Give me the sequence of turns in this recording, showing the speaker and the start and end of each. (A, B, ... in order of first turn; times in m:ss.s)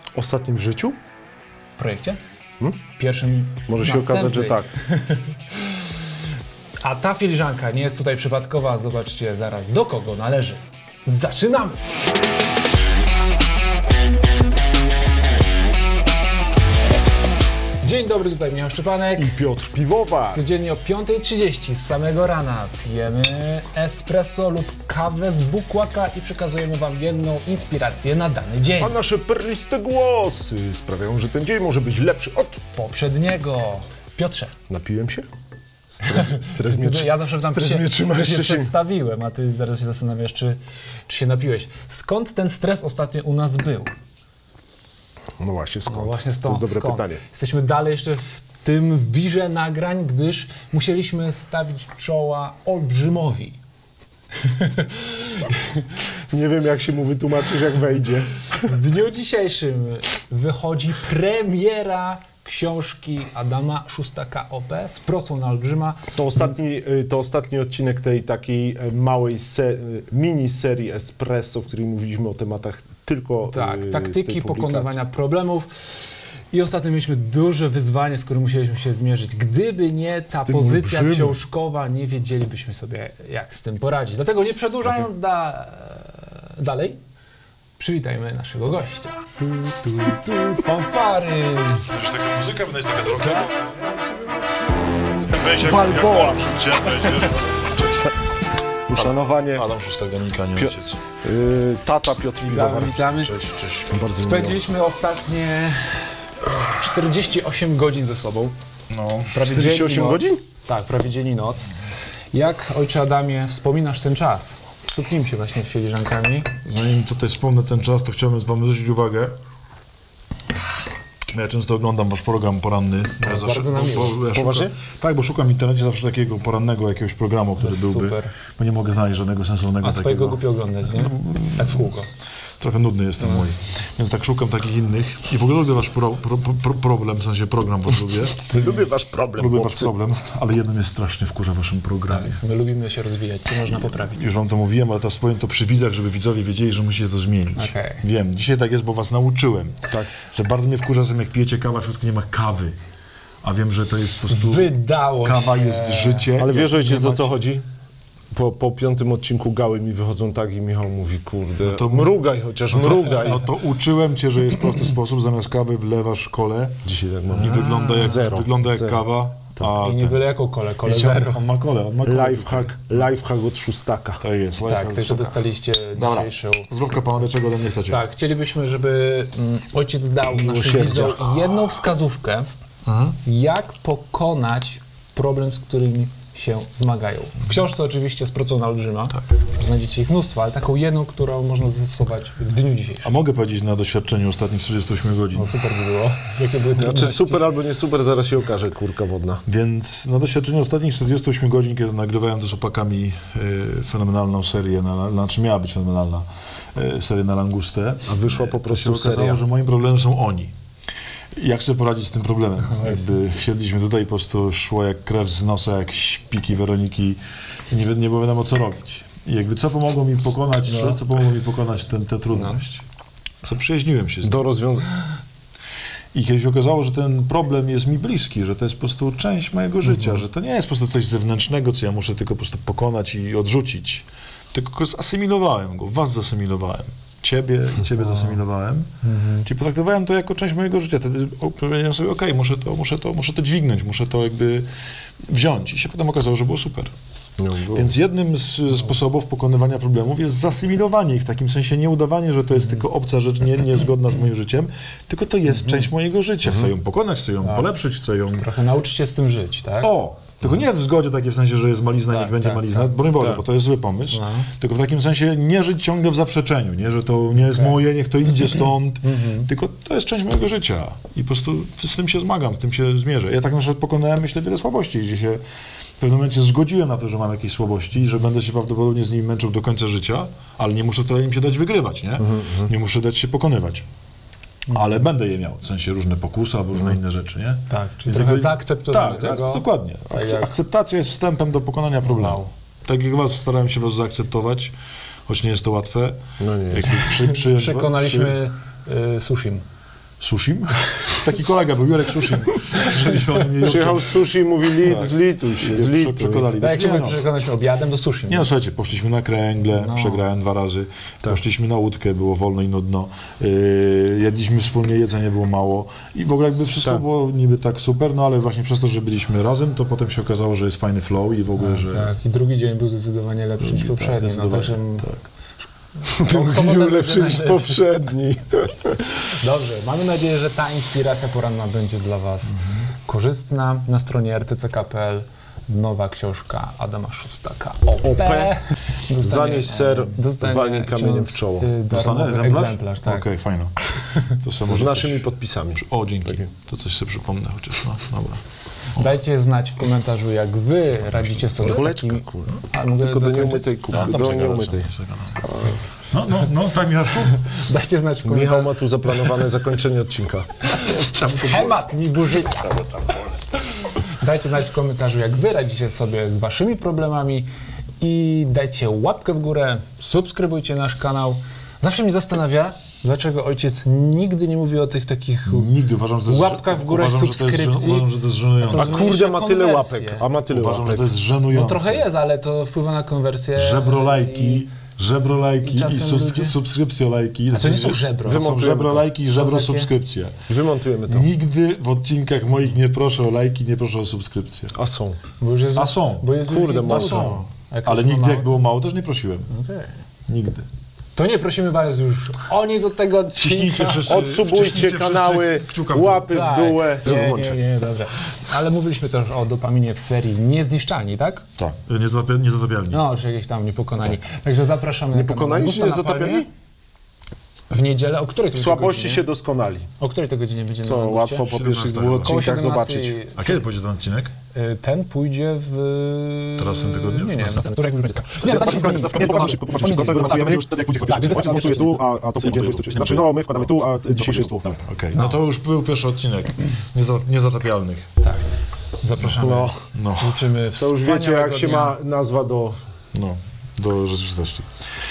0:00.2-0:01.0 A
0:01.8-0:02.2 B
0:03.0-0:05.4 B
0:03.7-0:04.7 A
0:06.8-0:11.8 B
0:17.8-0:19.3 B
0:19.2-0:20.4 A
0:20.3-0:29.0 B
0:28.8-0:32.6 A
0:32.7-0:34.5 B
0:34.7-0:35.3 A
0:35.9-0:38.7 A
0:36.1-0:43.9 B
0:45.4-0:47.2 A
0:45.9-0:53.6 B
0:54.4-0:56.4 B
0:56.3-0:58.3 A
0:58.5-1:06.6 B
1:06.2-1:15.0 A
1:13.5-1:15.7 B
1:16.5-1:27.0 B
1:20.3-1:21.4 A
1:27.8-1:31.9 B
1:31.9-1:33.7 C
1:35.3-1:38.2 C
1:35.5-1:36.5 A
1:38.9-1:39.7 A
1:38.9-1:41.0 C
1:40.6-1:44.7 A
1:42.4-1:48.5 B
1:48.9-1:49.5 C
1:49.3-1:51.7 B
1:49.5-1:50.4 A
1:52.3-1:56.5 B
1:56.6-1:59.4 C
2:01.3-2:11.9 C
2:03.2-2:04.2 B
2:04.3-2:04.7 A
2:07.6-2:08.4 B
2:09.8-2:12.1 B
2:12.6-2:18.6 C
2:13.2-2:13.5 B
2:18.5-2:19.9 A
2:19.4-2:22.4 C
2:22.1-2:24.2 B
2:23.6-2:32.8 C
2:27.6-2:28.0 B
2:29.9-2:30.2 A
2:33.4-2:34.7 C
2:34.3-2:36.3 B
2:35.2-2:37.3 C
2:36.4-2:37.6 A
2:38.3-2:43.4 A
2:41.6-2:42.1 C
2:42.7-2:46.8 C
2:46.8-2:49.0 A
2:47.4-2:50.3 C
2:47.4-2:48.0 B
2:49.8-2:51.4 B
2:50.8-2:52.9 C
2:52.0-2:54.2 A
2:54.2-2:55.4 C
2:54.7-2:57.2 B
2:56.0-2:58.0 C
2:57.9-3:02.5 B
3:00.3-3:01.2 A
3:02.9-3:03.2 C
3:03.2-3:13.1 B
3:13.0-3:15.5 C
3:15.3-3:17.5 B
3:16.8-3:19.4 A
3:19.5-3:30.5 C
3:28.1-3:29.4 A
3:31.4-3:37.2 C
3:32.7-3:33.0 B
3:37.7-3:42.8 C
3:43.4-3:44.4 C
3:44.2-3:44.9 A
3:46.1-4:04.7 C
3:59.1-3:59.4 B
4:05.3-4:06.9 C
4:07.4-4:07.9 A
4:07.7-4:18.5 C
4:17.4-4:17.7 B
4:18.3-4:19.9 B
4:19.8-4:35.4 C
4:22.1-4:22.9 B
4:24.1-4:24.5 B
4:29.0-4:29.5 B
4:36.0-4:43.8 C
4:44.7-4:54.7 C
4:47.7-4:50.5 B
4:52.1-4:52.5 B
4:55.3-4:58.4 C
4:56.4-4:57.2 A
4:57.3-4:59.6 B
5:00.2-5:04.2 C
5:03.6-5:06.5 A
5:04.8-5:07.2 C
5:06.6-5:08.5 B
5:08.3-5:22.1 C
5:09.7-5:10.3 B
5:21.6-5:25.1 B
5:23.6-5:25.3 C
5:26.1-5:27.9 B
5:26.1-5:29.0 A
5:29.1-5:43.2 B
5:38.0-5:38.6 A
5:39.2-5:41.7 A
5:41.9-5:48.4 C
5:44.7-5:46.5 A
5:49.0-5:54.0 B
5:51.6-5:54.9 A
5:53.9-5:57.5 C
5:55.4-5:55.8 A
5:57.4-5:58.8 B
5:58.2-6:00.5 A
6:00.7-6:03.1 B
6:00.8-6:01.8 C
6:03.8-6:07.5 B
6:08.0-6:15.7 B
6:15.5-6:19.0 C
6:16.3-6:20.3 B
6:18.8-6:21.1 A
6:20.5-6:22.0 C
6:21.5-6:24.6 B
6:23.6-6:30.4 C
6:25.6-6:26.6 B
6:27.5-6:28.5 B
6:28.2-6:29.1 A
6:29.3-6:29.9 B
6:30.5-6:31.3 A
6:31.1-6:34.8 C
6:34.8-6:35.2 A
6:35.4-6:38.5 B
6:35.8-6:39.5 C
6:36.4-6:37.4 A
6:39.5-6:39.9 B
6:40.3-6:40.7 C
6:41.2-6:44.2 B
6:43.4-6:46.3 C
6:44.0-6:47.6 A
6:46.2-6:51.4 B
6:51.6-6:53.0 C
6:52.9-6:56.5 B
6:55.1-6:56.5 A
6:57.7-6:59.3 B
6:58.5-6:59.9 A
7:00.0-7:01.5 B
7:00.8-7:03.2 A
7:01.5-7:02.4 C
7:02.2-7:03.6 B
7:03.4-7:04.3 C
7:04.5-7:12.0 B
7:06.6-7:07.7 C
7:08.4-7:14.8 A
7:08.4-7:13.3 C
7:14.4-7:18.1 C
7:18.2-7:18.5 B
7:19.0-7:22.0 B
7:19.4-7:19.8 A
7:19.9-7:20.4 C
7:20.8-7:22.8 A
7:23.1-7:24.7 C